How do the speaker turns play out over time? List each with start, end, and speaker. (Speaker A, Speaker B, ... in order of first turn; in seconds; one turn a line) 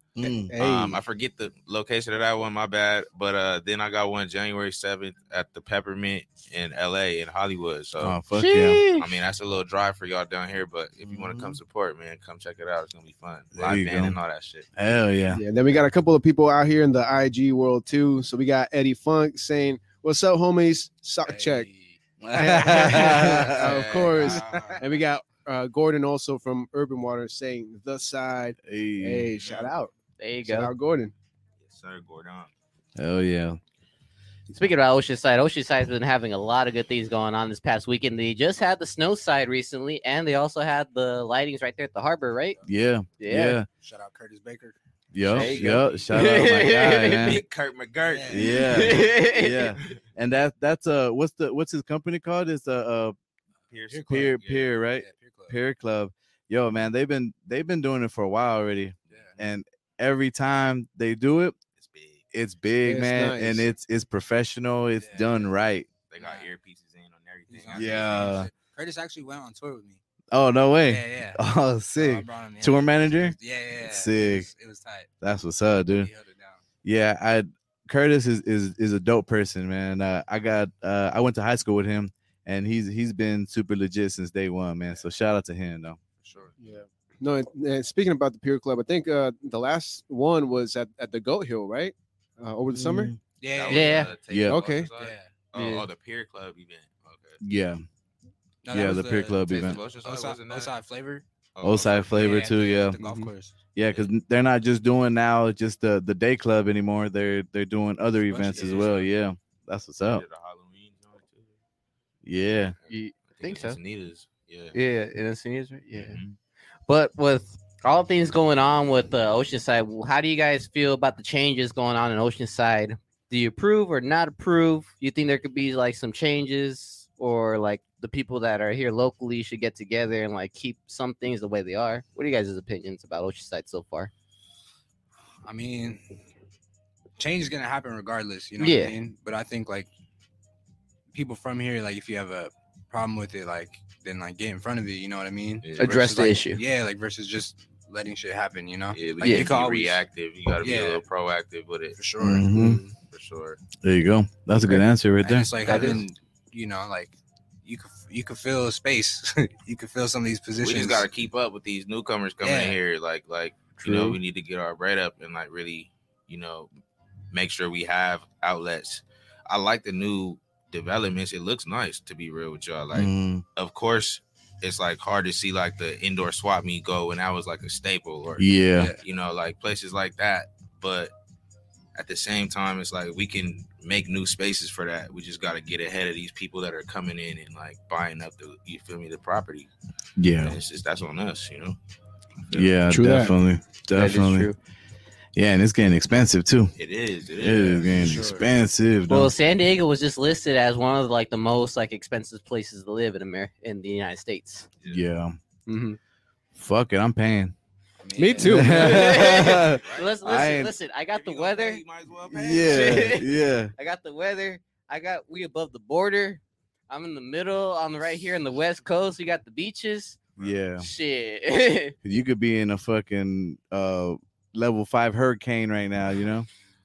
Speaker A: 0.1-0.5
Speaker B: 0.5-1.0
Speaker C: 0.6-8.2
Speaker A: 8.0-8.8
Speaker D: 8.3-9.1
Speaker C: 8.9-14.7
Speaker A: 11.0-11.6
Speaker A: 13.5-14.2
Speaker A: 14.8-15.4
Speaker B: 15.3-21.7
Speaker E: 21.2-24.9
Speaker A: 22.2-24.3
Speaker B: 22.3-29.9
Speaker C: 23.9-24.8
Speaker A: 28.6-29.3
Speaker C: 29.4-29.7
Speaker D: 30.2-30.7
Speaker B: 30.4-31.1
Speaker C: 31.6-32.5
Speaker A: 33.0-33.6
Speaker D: 34.5-42.6
Speaker A: 42.6-43.7
Speaker D: 43.2-43.6
Speaker E: 43.7-44.8
Speaker A: 45.1-47.4
Speaker C: 45.3-45.9
Speaker E: 45.3-46.0
Speaker D: 45.3-47.3
Speaker C: 47.1-49.1
Speaker E: 48.1-48.6
Speaker A: 48.3-53.1
Speaker D: 48.7-49.6
Speaker C: 53.7-54.7
Speaker E: 53.9-55.6
Speaker A: 54.1-61.5
Speaker E: 59.1-59.4
Speaker C: 61.8-62.2
Speaker A: 62.3-65.9
Speaker B: 62.8-63.7
Speaker E: 65.0-65.5
Speaker C: 66.1-68.4
Speaker E: 66.2-66.5
Speaker E: 67.5-70.0
Speaker A: 67.7-68.5
Speaker A: 70.3-74.5
Speaker E: 70.8-71.4
Speaker E: 72.0-75.1
Speaker A: 75.2-76.1
Speaker E: 75.9-76.6
Speaker A: 76.8-86.0
Speaker E: 86.2-86.5
Speaker B: 86.6-93.1
Speaker A: 92.7-93.2
Speaker E: 93.4-94.2
Speaker C: 93.5-97.4
Speaker D: 93.7-94.1
Speaker A: 94.3-94.6
Speaker B: 94.5-94.9
Speaker E: 95.0-95.3
Speaker D: 95.5-95.8
Speaker A: 97.4-97.8
Speaker E: 98.6-101.2
Speaker A: 98.7-99.8
Speaker C: 99.5-100.7
Speaker C: 101.5-102.5
Speaker A: 101.6-103.0
Speaker E: 102.1-103.6
Speaker B: 103.0-103.3
Speaker A: 103.8-110.2
Speaker E: 108.3-109.1
Speaker C: 108.5-108.9
Speaker C: 110.0-111.6
Speaker A: 112.2-112.7
Speaker C: 112.8-114.8
Speaker D: 112.9-113.8
Speaker D: 114.7-116.2
Speaker C: 115.9-116.4
Speaker D: 116.9-134.1
Speaker E: 135.4-136.0
Speaker E: 137.2-139.9
Speaker D: 138.6-138.9
Speaker E: 141.1-150.0
Speaker C: 145.6-146.0
Speaker D: 145.8-146.6
Speaker C: 148.9-152.0
Speaker D: 149.2-149.5
Speaker E: 150.6-151.0
Speaker E: 151.9-152.8
Speaker A: 152.2-152.8
Speaker C: 152.9-153.6
Speaker A: 153.8-155.7
Speaker E: 155.2-161.1
Speaker D: 155.7-156.0
Speaker C: 160.6-166.7
Speaker E: 162.4-162.8
Speaker D: 163.8-164.2
Speaker C: 167.3-181.1
Speaker A: 172.9-173.4
Speaker A: 178.4-178.9
Speaker E: 178.8-179.0
Speaker C: 181.9-189.7
Speaker A: 190.2-190.6
Speaker C: 190.4-191.8
Speaker C: 192.5-192.7
Speaker A: 192.5-194.5
Speaker B: 192.9-193.3
Speaker D: 193.9-194.6
Speaker A: 195.3-196.7
Speaker C: 196.8-198.2
Speaker A: 197.4-199.3
Speaker D: 199.1-204.7
Speaker A: 204.9-205.3
Speaker B: 205.7-206.0
Speaker A: 206.6-207.5
Speaker E: 208.0-209.8
Speaker B: 208.2-209.3
Speaker A: 208.4-210.7
Speaker D: 208.7-211.8
Speaker C: 209.6-213.2
Speaker A: 212.3-213.7
Speaker D: 212.6-220.2
Speaker A: 220.4-220.8
Speaker D: 220.8-221.9
Speaker A: 222.0-226.5